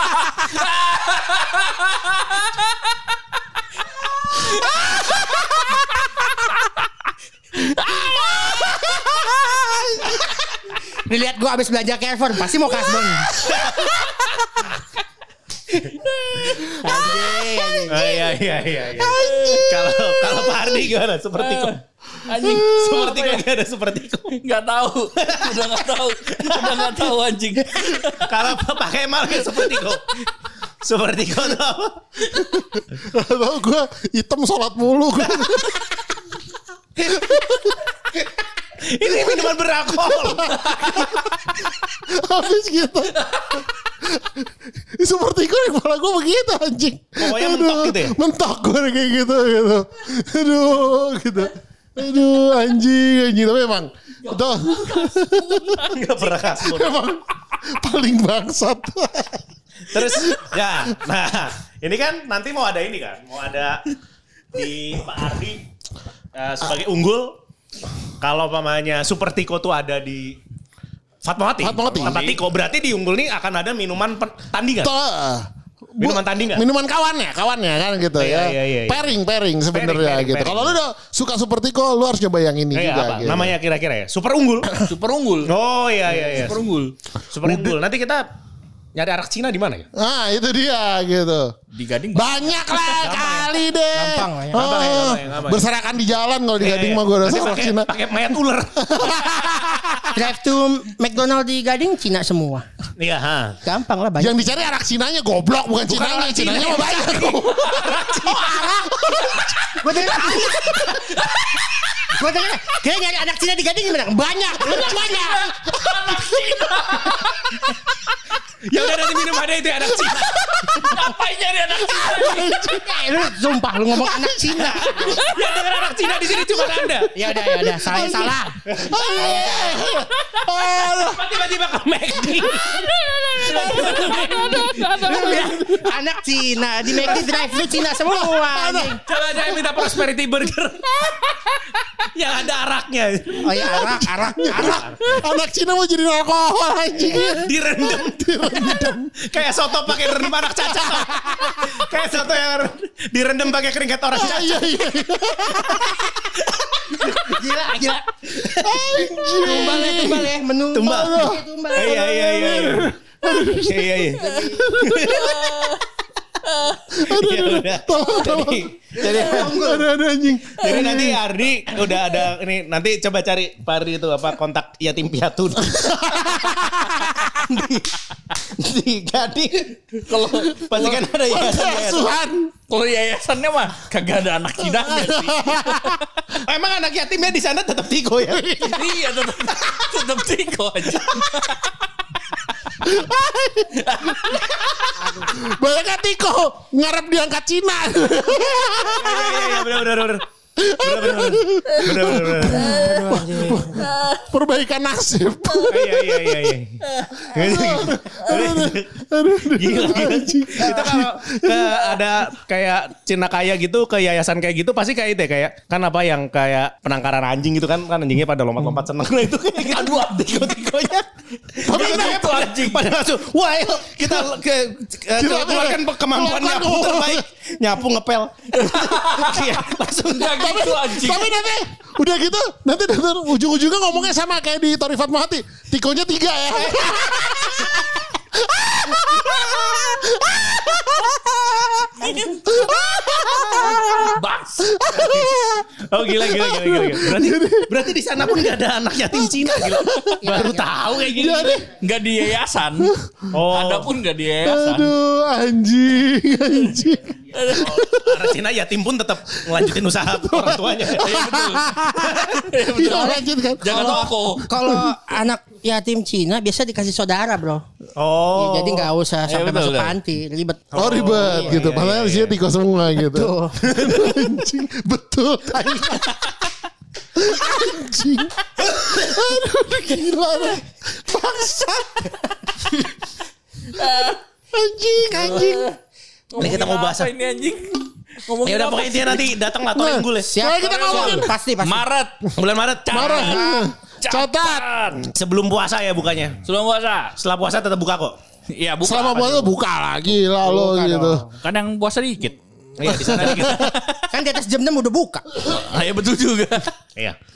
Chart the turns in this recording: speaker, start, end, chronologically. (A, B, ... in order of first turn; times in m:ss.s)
0:00.5-0:02.4 A
0:08.2-0:09.0 B
0:09.6-0:10.1 B
0:11.0-0:13.5 B
0:13.3-0:14.0 C
0:16.3-0:17.1 A
0:16.6-0:18.3 B
0:17.9-0:21.8 C
0:19.0-0:20.4 A
0:21.4-0:23.4 A
0:22.3-0:24.4 C
0:24.4-0:28.4 A
0:25.2-0:25.7 C
0:26.3-0:27.1 C
0:27.9-0:30.2 C
0:30.8-0:32.0 C
0:32.5-0:35.9 D
0:37.0-0:37.8 D
0:38.8-0:41.1 C
0:40.4-0:41.2 D
0:42.0-0:55.9 D
0:47.2-0:48.2 C
0:54.3-0:55.8 A
0:55.8-0:57.0 C
0:56.6-1:00.6 D
0:59.9-1:03.8 C
1:04.5-1:05.6 C
1:06.3-1:07.4 C
1:08.2-1:10.4 C
1:11.2-1:14.9 C
1:11.6-1:12.4 D
1:12.0-1:12.4 A
1:14.8-1:23.6 D
1:16.0-1:16.6 C
1:18.2-1:19.1 C
1:19.7-1:20.8 C
1:22.7-1:24.7 C
1:24.8-1:25.5 A
1:25.4-1:26.6 C
1:26.2-1:27.0 A
1:27.3-1:28.3 C
1:27.4-1:27.8 D
1:29.0-1:29.9 C
1:30.0-1:31.6 D
1:31.7-1:33.0 A
1:32.1-1:37.9 D
1:33.0-1:33.6 C
1:33.9-1:35.1 B
1:34.5-1:35.6 C
1:36.6-1:39.3 C
1:38.8-1:40.2 D
1:40.1-1:42.7 B
1:43.0-1:43.6 C
1:43.6-1:44.5 B
1:44.2-1:51.0 D
1:45.9-1:49.5 C
1:49.8-1:50.8 B
1:50.3-1:51.1 C
1:52.1-1:55.2 B
1:54.1-1:56.3 D
1:54.7-1:57.7 A
1:58.6-2:00.5 C
2:00.5-2:01.0 D
2:00.6-2:02.6 A
2:01.8-2:03.3 D
2:02.7-2:05.2 B
2:04.0-2:05.2 D
2:04.6-2:07.4 C
2:05.1-2:05.4 A
2:07.1-2:08.6 B
2:07.8-2:11.3 D
2:08.7-2:09.0 C
2:09.1-2:09.9 B
2:11.0-2:12.9 C
2:12.7-2:15.8 A
2:13.4-2:14.3 D
2:13.4-2:15.8 C
2:14.3-2:19.0 B
2:15.2-2:15.6 D
2:17.0-2:18.9 D
2:19.1-2:21.5 C
2:22.1-2:23.9 C
2:23.4-2:24.8 B
2:23.6-2:29.2 D
2:24.5-2:25.2 C
2:27.0-2:34.7 C
2:30.0-2:31.8 D
2:34.2-2:36.3 D
2:35.5-2:39.1 C
2:37.2-2:38.0 B
2:38.5-2:40.3 D
2:39.1-2:42.7 B
2:40.7-2:43.0 C
2:40.9-2:41.4 D
2:42.1-2:45.4 D
2:43.5-2:45.5 C
2:44.2-2:44.8 B
2:45.1-2:45.8 A
2:46.5-2:46.8 A
2:46.9-2:51.2 D
2:46.9-2:49.8 C
2:49.0-2:49.9 B
2:50.5-2:56.6 C
2:55.6-2:57.5 D
2:57.4-3:02.1 C
3:00.1-3:01.0 A
3:01.3-3:02.5 D
3:02.7-3:06.0 A
3:04.9-3:06.0 D
3:06.4-3:08.7 C
3:08.4-3:08.8 D
3:08.6-3:11.8 A
3:12.8-3:14.4 D
3:13.7-3:14.8 A
3:15.0-3:15.3 B
3:15.2-3:19.7 D
3:18.8-3:22.8 C
3:20.6-3:26.2 D
3:22.5-3:23.9 B
3:23.8-3:24.2 A
3:25.7-3:28.9 C
3:27.3-3:31.8 D
3:29.5-3:50.7 C
3:39.6-3:40.1 A
3:41.6-3:42.3 D
3:41.6-3:42.9 A
3:45.2-3:47.2 D
3:48.5-3:51.3 A
3:50.4-4:07.8 D
3:56.6-3:57.1 C
4:04.0-4:04.7 A
4:05.0-4:11.6 C
4:09.4-4:10.2 D
4:10.2-4:10.7 B
4:11.1-4:11.7 D
4:11.8-4:12.9 A
4:12.8-4:13.1 D
4:13.3-4:13.9 C
4:13.5-4:14.9 A
4:14.4-4:18.3 D
4:17.3-4:17.8 A
4:17.7-4:21.3 C
4:19.4-4:24.9 D
4:21.0-4:21.8 A
4:22.0-4:22.4 C
4:22.3-4:24.5 A
4:22.8-4:27.6 B
4:28.0-4:28.9 C
4:28.3-4:31.6 B
4:29.3-4:30.0 A
4:30.7-4:32.4 C
4:30.8-4:36.3 D
4:33.0-4:33.6 B
4:33.6-4:34.3 C
4:37.1-4:42.2 D
4:43.7-4:44.2 A
4:44.5-4:45.7 D
4:45.1-4:45.8 A
4:46.3-4:49.3 A
4:46.4-4:47.1 C
4:48.4-4:50.3 C
4:49.8-4:51.3 D
4:50.3-4:51.9 B
4:50.7-4:52.2 A
4:52.4-4:53.4 C
4:52.9-4:54.7 D
4:52.9-4:55.1 A
4:55.0-4:56.4 C
4:56.4-4:57.2 A
4:57.2-4:58.2 C
4:58.5-4:59.6 A
4:58.8-5:01.3 D
5:00.4-5:01.3 B
5:01.4-5:02.4 A
5:02.8-5:03.7 C
5:02.9-5:03.7 D
5:03.0-5:04.0 A
5:04.1-5:05.3 B
5:05.4-5:06.7 A